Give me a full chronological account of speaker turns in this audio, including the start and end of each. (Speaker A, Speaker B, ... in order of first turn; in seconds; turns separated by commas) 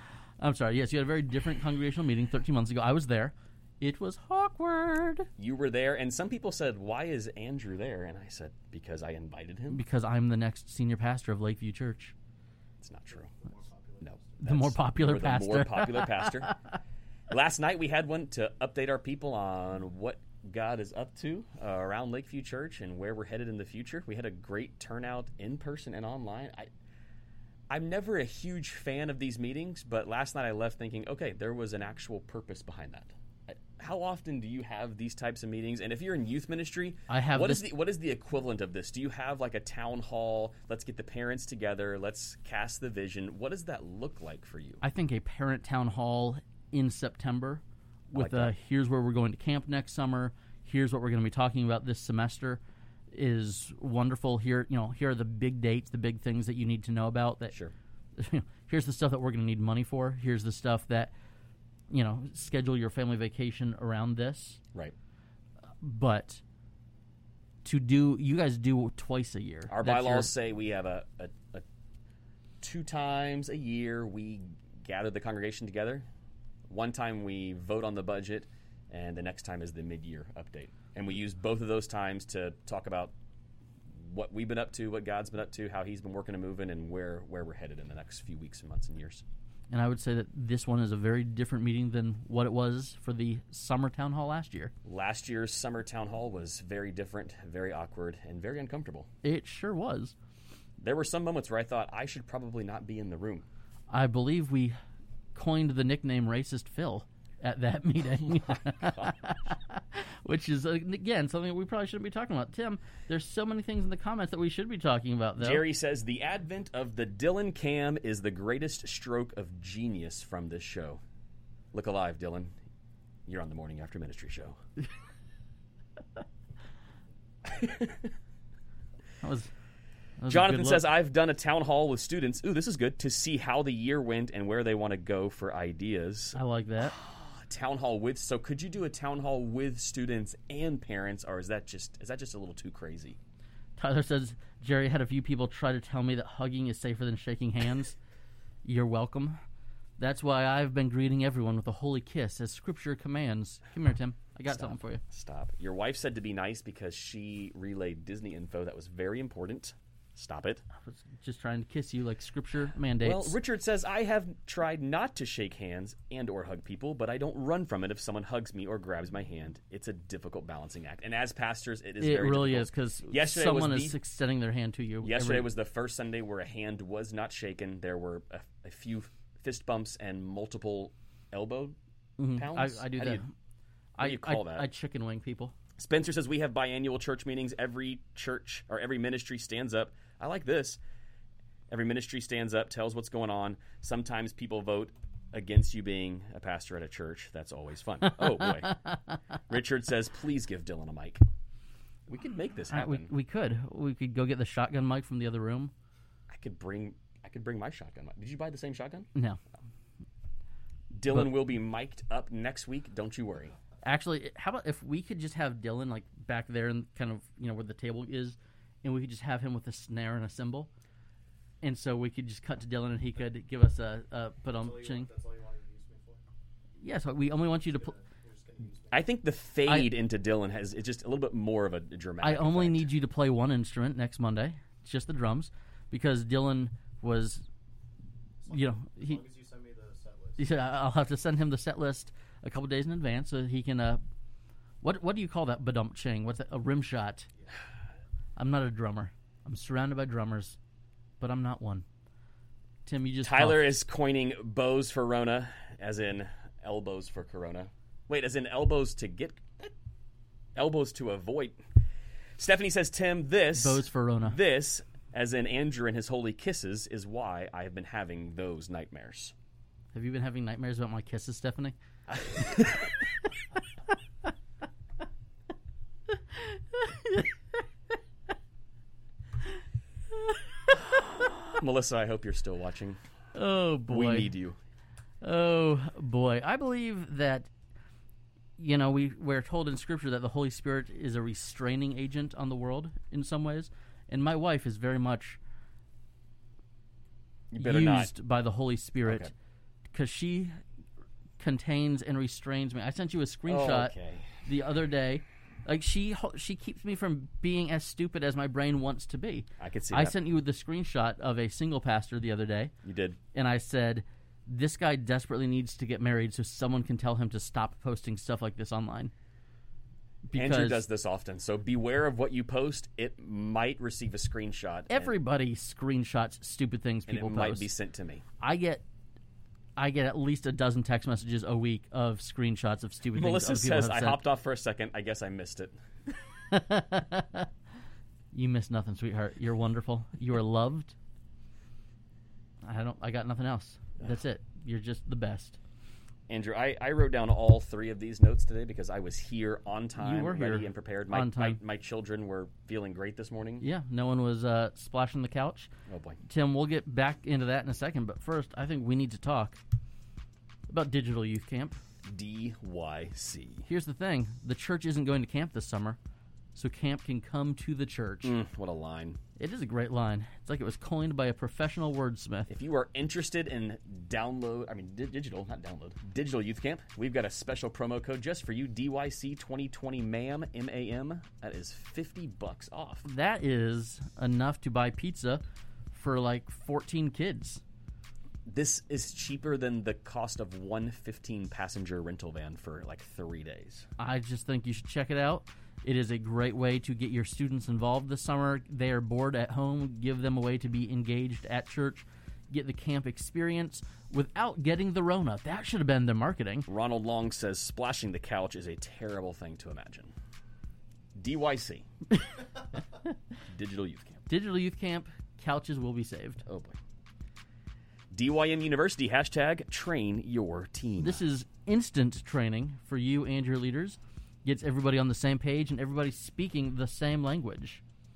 Speaker A: 0.4-5.3, Speaker B: 5.4-9.8, Speaker A: 9.7-12.2, Speaker B: 12.8-13.3, Speaker C: 13.1-14.4, Speaker B: 14.0-16.6, Speaker A: 14.4-16.6, Speaker B: 17.3-26.7, Speaker B: 27.7-44.8, Speaker A: 37.1-37.7, Speaker A: 44.8-52.6, Speaker B: 48.2-48.5, Speaker A: 53.1-57.5, Speaker A: 58.2-61.1, Speaker A: 61.9-64.6, Speaker A: 65.8-66.4, Speaker A: 67.6-70.3, Speaker B: 69.7-71.7, Speaker B: 72.6-76.1, Speaker B: 76.7-83.1, Speaker B: 83.9-89.2, Speaker A: 89.7-94.7, Speaker B: 94.8-99.1, Speaker A: 99.2-100.2, Speaker B: 100.8-103.5, Speaker A: 103.9-104.8, Speaker A: 105.3-115.6, Speaker B: 108.8-109.1, Speaker B: 115.4-121.0, Speaker B: 121.7-122.5, Speaker B: 123.3-124.6, Speaker B: 127.5-128.1, Speaker A: 129.2-129.5, Speaker A: 130.2-130.8, Speaker B: 130.3-143.2, Speaker A: 136.3-136.9, Speaker A: 143.8-148.0, Speaker A: 148.6-149.4, Speaker A: 150.0-155.0, Speaker B: 154.5-160.6, Speaker A: 160.8-163.4, Speaker B: 163.0-174.0, Speaker A: 172.0-175.5, Speaker B: 175.0-181.8, Speaker A: 182.2-183.3, Speaker B: 182.4-183.2, Speaker A: 184.0-185.5, Speaker B: 184.0-184.7, Speaker B: 185.8-190.8, Speaker B: 191.7-198.9, Speaker B: 199.5-201.2, Speaker B: 202.1-203.1, Speaker A: 202.7-205.7, Speaker B: 206.3-209.1, Speaker B: 210.9-213.6, Speaker A: 213.8-220.7, Speaker A: 221.6-225.1, Speaker C: 224.5-226.2, Speaker A: 226.8-227.9, Speaker C: 227.7-229.1, Speaker B: 228.9-232.9, Speaker A: 229.7-229.9, Speaker A: 232.2-237.4, Speaker C: 238.4-240.4, Speaker A: 238.5-239.2, Speaker A: 240.4-244.0, Speaker A: 244.8-247.3, Speaker A: 248.4-250.6, Speaker A: 251.2-251.8, Speaker A: 252.9-253.7, Speaker B: 253.2-259.7, Speaker B: 260.6-261.6, Speaker B: 262.4-269.3, Speaker A: 263.6-264.4, Speaker A: 269.9-271.8, Speaker B: 272.1-272.9, Speaker A: 272.4-272.7, Speaker A: 276.1-277.3, Speaker A: 280.2-281.3, Speaker B: 280.9-283.0, Speaker A: 283.4-284.3, Speaker B: 283.9-284.6, Speaker A: 285.2-287.5, Speaker A: 288.6-295.4, Speaker B: 297.5-298.1, Speaker A: 297.6-299.3, Speaker B: 299.1-299.3, Speaker A: 299.9-300.6, Speaker A: 301.4-303.9, Speaker B: 303.5-304.4, Speaker A: 304.4-312.7, Speaker B: 309.6-310.2, Speaker B: 312.8-313.2, Speaker A: 313.3-319.1, Speaker A: 320.3-320.8, Speaker B: 320.3-325.1, Speaker A: 324.9-327.7, Speaker B: 327.1-328.2, Speaker A: 328.4-328.8, Speaker A: 329.8-334.2, Speaker B: 333.1-335.8, Speaker A: 336.5-337.5, Speaker A: 338.3-341.0, Speaker A: 342.6-345.6, Speaker B: 346.3-353.6, Speaker A: 350.0-351.6, Speaker A: 353.6-355.7, Speaker B: 355.9-356.2, Speaker A: 356.2-359.6, Speaker A: 360.7-361.8, Speaker B: 362.1-363.7, Speaker A: 363.7-366.0, Speaker A: 366.6-368.4, Speaker B: 368.2-369.2, Speaker A: 369.4-372.5, Speaker B: 372.5-383.1, Speaker A: 383.1-387.6, Speaker B: 388.5-393.9, Speaker A: 394.0-406.7, Speaker B: 406.7-410.1, Speaker B: 411.2-411.9, Speaker B: 413.5-414.2, Speaker A: 414.3-416.4, Speaker B: 416.5-416.8, Speaker B: 418.1-421.2, Speaker A: 421.0-427.8